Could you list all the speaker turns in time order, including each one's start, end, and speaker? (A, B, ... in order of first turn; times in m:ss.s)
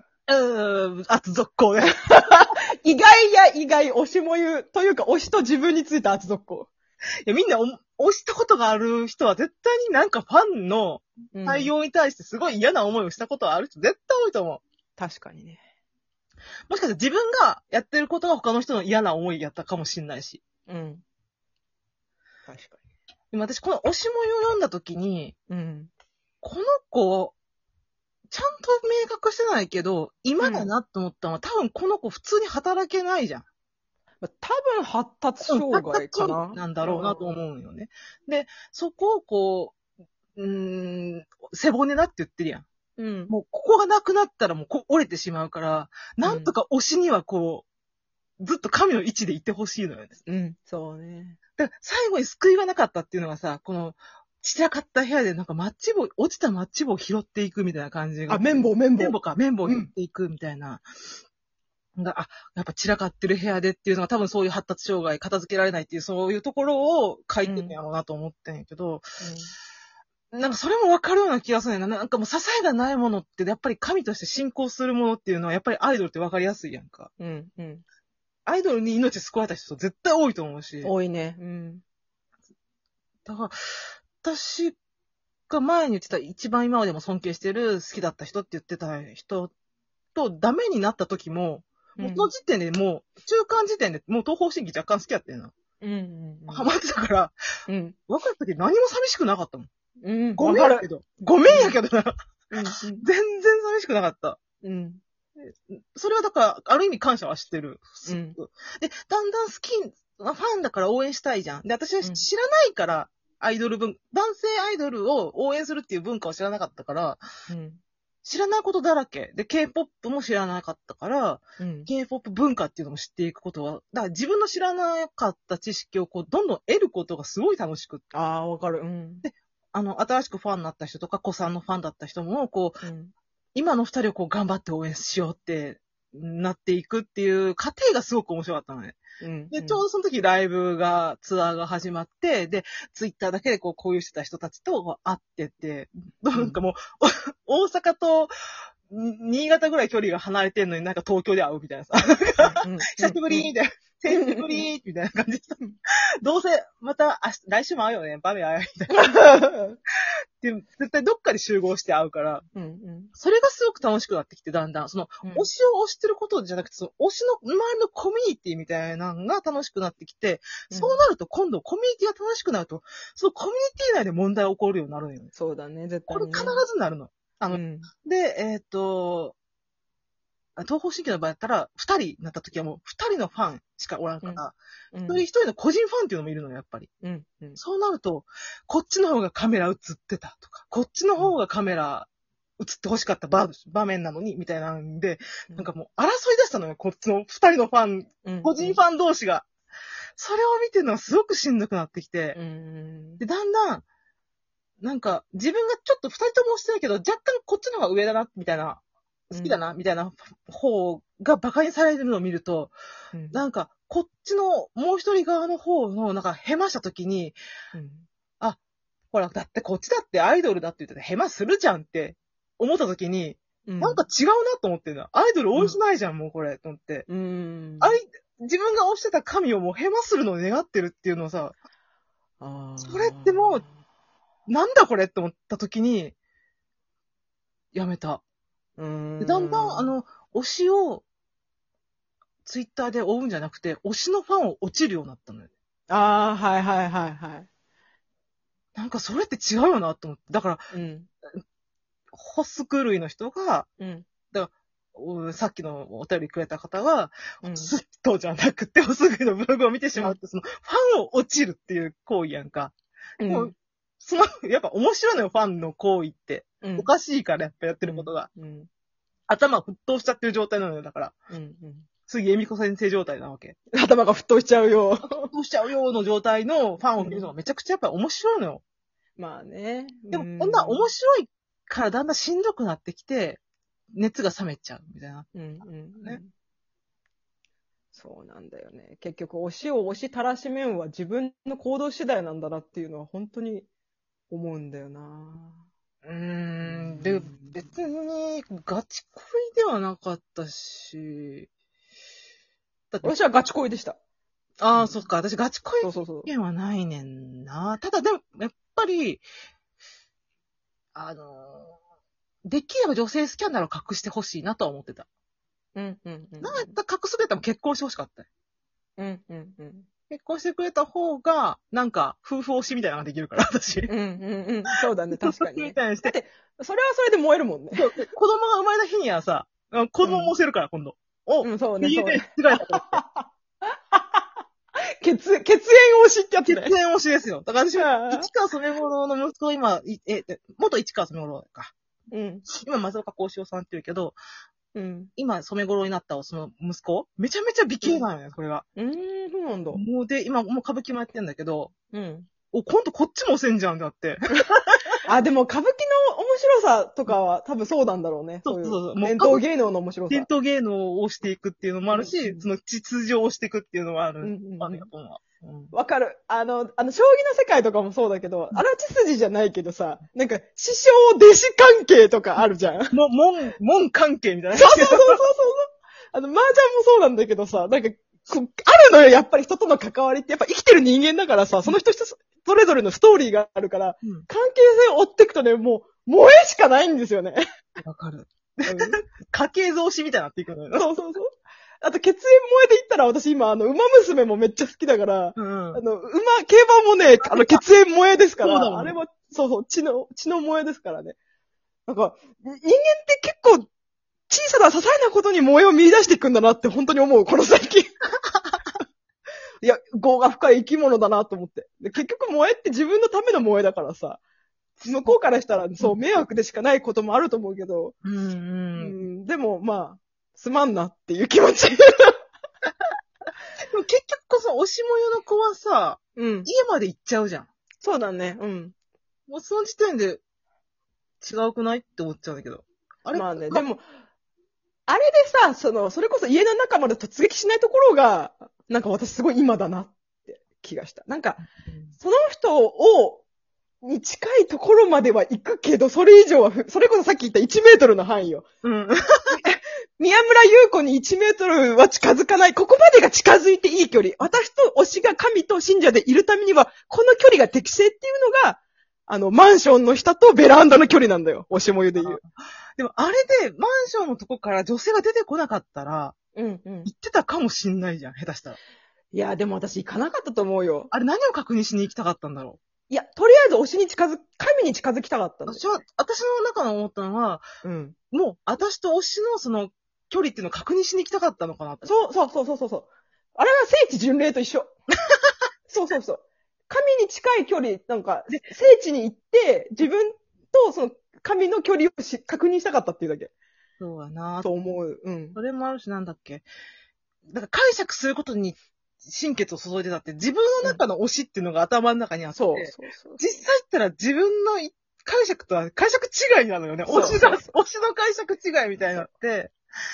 0:00.3-0:02.5 A
0:02.2-0:06.7 B
0:07.2-0:14.6 A
0:11.3-0:11.7 B
0:15.0-0:15.6 B
0:16.7-0:20.4 A
0:20.7-0:21.0 B
0:22.5-0:22.8 B
0:23.3-0:25.3 A
0:25.5-0:25.9 B
0:26.4-0:27.3 A
0:28.3-0:33.4 A
0:30.4-0:30.7 B
0:34.2-0:37.4 B
0:35.4-0:39.8 A
0:40.3-0:42.6 A
0:43.0-0:43.3 B
0:43.3-0:47.6 A
0:46.2-0:46.5 B
0:48.4-0:50.2 A
0:50.3-0:51.4 B
0:51.6-1:00.8 A
0:58.3-0:59.9 B
1:02.0-1:09.0 A
1:07.4-1:07.8 B
1:09.2-1:09.5 B
1:10.3-1:17.1 A
1:17.2-1:17.8 B
1:18.4-1:20.9 A
1:20.8-1:21.8 B
1:23.2-1:23.5 A
1:24.2-1:24.8 A
1:25.5-1:29.5 A
1:30.1-1:35.5 A
1:32.0-1:32.3 B
1:35.8-1:36.7 B
1:36.5-1:37.3 A
1:37.7-1:38.0 B
1:38.1-1:39.7 A
1:40.0-1:40.9 B
1:40.4-1:42.1 A
1:41.5-1:41.8 B
1:42.5-1:43.0 B
1:42.9-1:44.4 A
1:44.6-1:45.0 B
1:45.4-1:57.2 A
1:48.0-1:48.4 B
1:57.5-1:57.8 B
1:58.2-2:08.0 A
2:01.6-2:01.9 B
2:08.1-2:09.2 B
2:09.2-2:12.8 A
2:12.8-2:13.1 B
2:13.5-2:28.3 A
2:19.2-2:19.8 B
2:28.9-2:35.6 A
2:32.5-2:33.5 B
2:34.1-2:34.6 B
2:36.2-2:39.0 A
2:38.9-2:39.8 B
2:40.4-2:42.4 A
2:42.5-2:43.1 B
2:43.1-2:55.3 A
2:45.2-2:45.5 B
2:50.7-2:51.0 B
2:55.4-2:56.6 B
2:56.1-2:59.3 A
2:57.5-2:57.9 B
3:00.6-3:06.9 A
3:04.2-3:05.2 B
3:07.0-3:07.6 B
3:07.6-3:19.5 A
3:18.2-3:18.8 B
3:20.2-3:22.4 A
3:22.3-3:23.2 B
3:23.2-3:23.8 A
3:24.8-3:32.7 A
3:29.3-3:29.6 B
3:33.1-3:33.4 B
3:33.3-3:37.4 A
3:37.7-3:38.0 B
3:39.1-3:47.1 A
3:43.7-3:44.0 B
3:47.1-3:48.0 B
3:47.8-3:51.6 A
3:52.4-3:53.7 B
3:52.8-3:53.6 A
3:54.5-3:56.1 A
3:57.7-3:58.2 A
3:58.8-3:59.9 B
3:59.2-4:01.0 A
4:02.4-4:05.5 A
4:05.9-4:07.5 B
4:08.8-4:10.6 A
4:10.7-4:11.1 B
4:12.1-4:13.7 A
4:13.8-4:14.0 B
4:14.3-4:22.7 A
4:17.4-4:17.7 B
4:23.2-4:23.5 B
4:23.2-4:28.3 A
4:26.6-4:26.9 B
4:27.8-4:28.7 B
4:29.3-4:31.1 A
4:31.3-4:31.9 B
4:32.1-4:33.6 A
4:33.7-4:35.3 B
4:35.1-4:38.6 A
4:37.0-4:37.3 B
4:39.2-4:40.9 B
4:40.1-4:43.4 A
4:43.9-4:45.3 A
4:45.3-4:46.3 B
4:47.9-4:53.7 B
4:54.3-4:55.6 B
4:56.0-5:01.5 A
4:56.6-4:57.5 B
5:02.9-5:03.2 A
5:03.0-5:04.0 B
5:04.6-5:09.2 A
5:05.8-5:06.3 B
5:10.9-5:11.8 A
5:12.4-5:15.1 A
5:15.7-5:16.7 B
5:16.4-5:18.3 A
5:19.0-5:19.9 B
5:20.1-5:23.9 A
5:23.9-5:27.8 B
5:25.1-5:26.1 A
5:27.7-5:33.0 A
5:30.0-5:30.3 B
5:31.4-5:33.2 B
5:33.9-5:34.2 B
5:35.0-5:36.7 B
5:36.4-5:41.7 A
5:37.8-5:38.3 B
5:42.1-5:42.4 B
5:42.5-5:44.2 A
5:44.7-5:45.1 B
5:45.2-5:48.6 A
5:48.8-5:49.8 B
5:49.7-5:51.7 A
5:51.9-5:52.3 B
5:52.5-5:54.9 A
5:55.0-6:00.3 B
5:58.4-5:59.4 A
6:00.1-6:05.7 A
6:01.9-6:02.4 B
6:04.2-6:04.9 B
6:05.7-6:12.9 B
6:12.9-6:15.2 A
6:14.5-6:27.4 B
6:27.8-6:30.9 A
6:28.6-6:29.0 B
6:30.7-6:41.2 B
6:35.4-6:35.8 A
6:37.2-6:37.6 A
6:38.4-6:39.0 A
6:41.9-6:43.7 B
6:44.3-6:47.9 B
6:49.6-6:54.2 B
6:54.8-6:55.2 A
6:54.8-6:57.9 B
6:58.0-6:59.0 A
6:58.8-7:02.2 B
7:03.7-7:07.5 A
7:06.2-7:06.5 B
7:07.8-7:08.7 B
7:09.3-7:10.2 A
7:11.2-7:13.6 A
7:13.1-7:13.8 B
7:14.9-7:21.4 B
7:21.7-7:21.9 A
7:22.0-7:23.2 B
7:23.8-7:28.4 B
7:28.6-7:29.3 A
7:29.3-7:42.2 B
7:41.9-7:46.1 A
7:46.4-7:46.9 B
7:46.8-7:48.6 A
7:49.1-7:50.9 B
7:50.9-7:52.6 A
7:52.9-7:55.7 B
7:55.5-7:57.4 A
7:57.6-7:58.0 B
7:58.1-8:01.9 A
8:01.8-8:04.7 B
8:05.7-8:13.3 B
8:13.8-8:14.5 A
8:14.4-8:15.4 B
8:15.3-8:16.4 A
8:17.3-8:29.5 A
8:22.3-8:23.2 B
8:26.8-8:27.5 B